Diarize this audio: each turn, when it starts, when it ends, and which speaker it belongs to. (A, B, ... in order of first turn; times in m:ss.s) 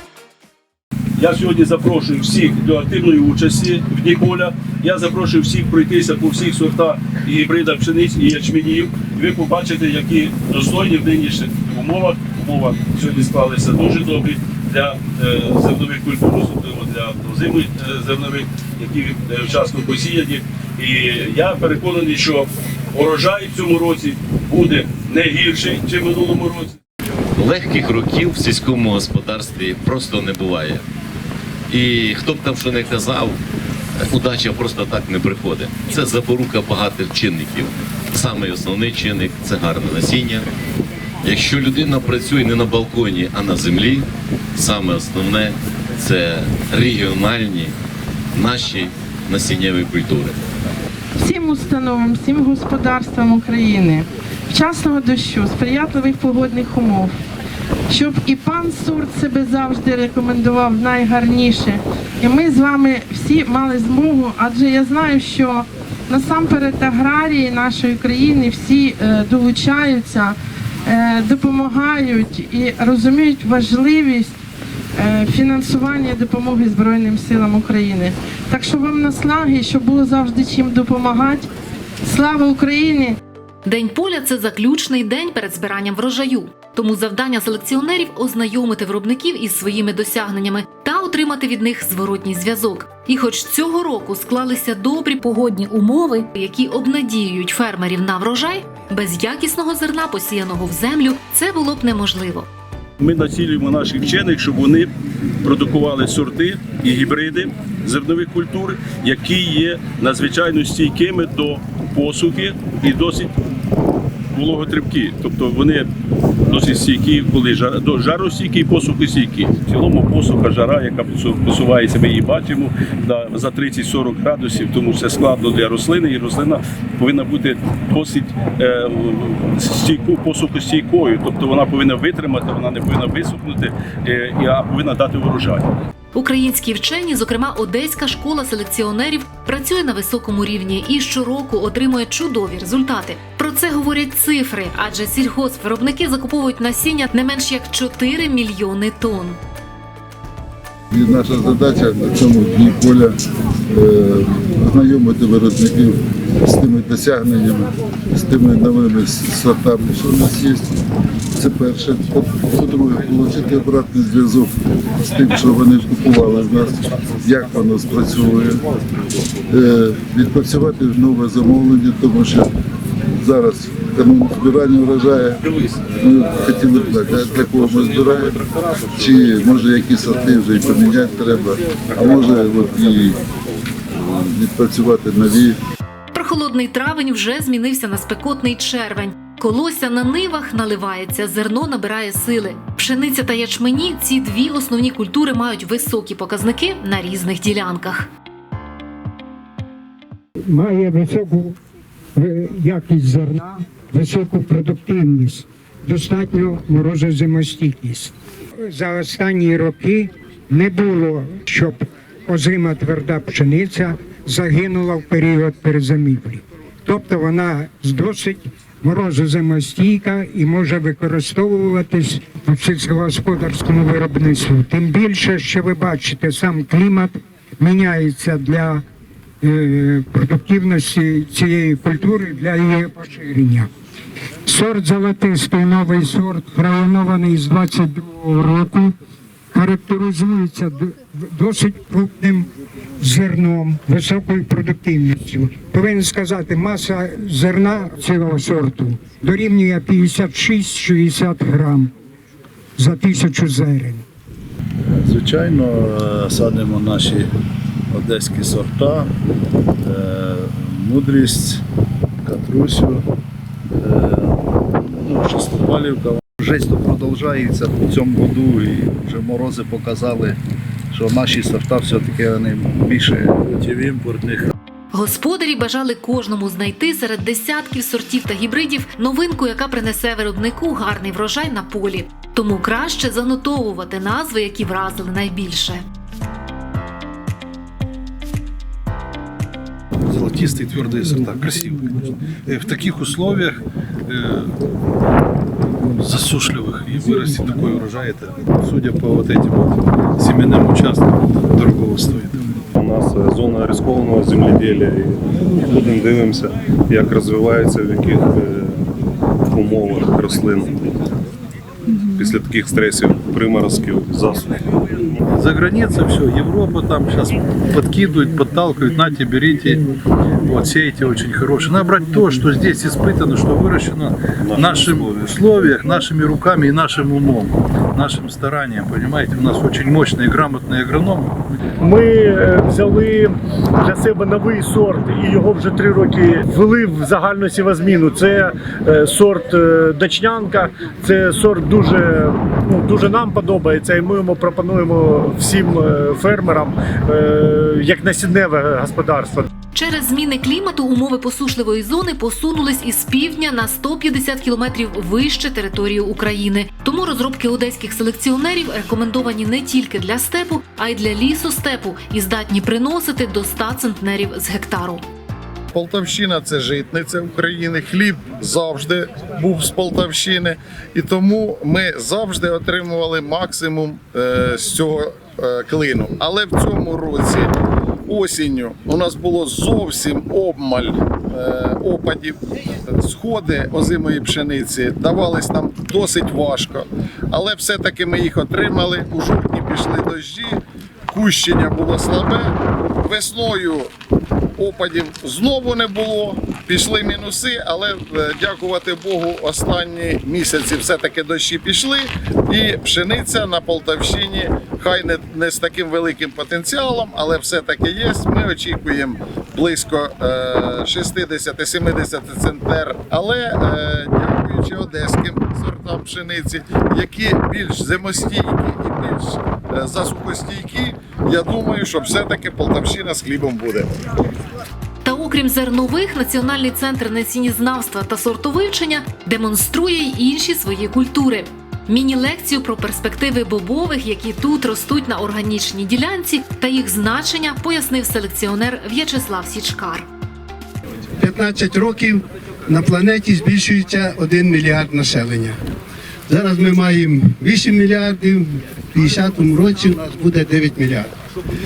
0:01.2-0:26.8 A
0:27.4-0:30.8 B
0:31.7-0:33.4 B
0:34.1-0:40.4 B
0:41.2-0:47.7 B
0:48.3-0:50.3 B
0:51.2-0:57.2 C
0:57.9-1:14.4 C
1:15.0-1:21.5 C
1:22.0-1:23.2 C
1:23.6-1:42.5 D
1:43.0-1:44.9 A
1:45.4-1:53.3 A
1:54.3-1:55.9 A
1:56.5-2:15.6 A
2:16.1-2:29.4 D
2:30.9-2:33.2 E
2:33.7-2:40.7 E
2:41.4-2:44.5 E
2:45.2-2:48.6 E
2:49.5-2:52.5 E
2:53.2-2:55.4 E
2:56.0-2:58.4 E
2:58.9-3:03.2 E
3:03.9-3:05.6 E
3:06.1-3:18.1 D
3:20.5-3:21.6 F
3:22.2-3:28.1 F
3:28.6-3:48.8 F
3:49.4-3:53.7 F
3:54.5-3:58.9 F
3:59.5-4:02.5 F
4:03.0-4:11.9 F
4:12.8-4:14.0 F
4:14.9-4:17.3 G
4:17.9-4:19.1 G
4:19.8-4:21.6 G
4:22.2-4:23.0 G
4:23.8-4:30.4 G
4:30.9-4:34.5 G
4:34.9-4:45.8 D
4:50.1-4:54.6 H
4:56.0-5:02.6 H
5:02.7-5:08.8 I
5:09.5-5:10.8 I
5:12.1-5:14.6 I
5:15.3-5:19.8 H
5:20.4-5:31.6 H
5:24.4-5:25.3 I
5:31.8-5:49.5 J
5:49.7-6:05.0 D
6:05.7-6:17.5 K
6:18.1-6:33.9 K
6:34.6-7:03.9 K
7:05.0-7:20.1 D
7:21.2-7:25.5 L
7:26.3-7:31.1 L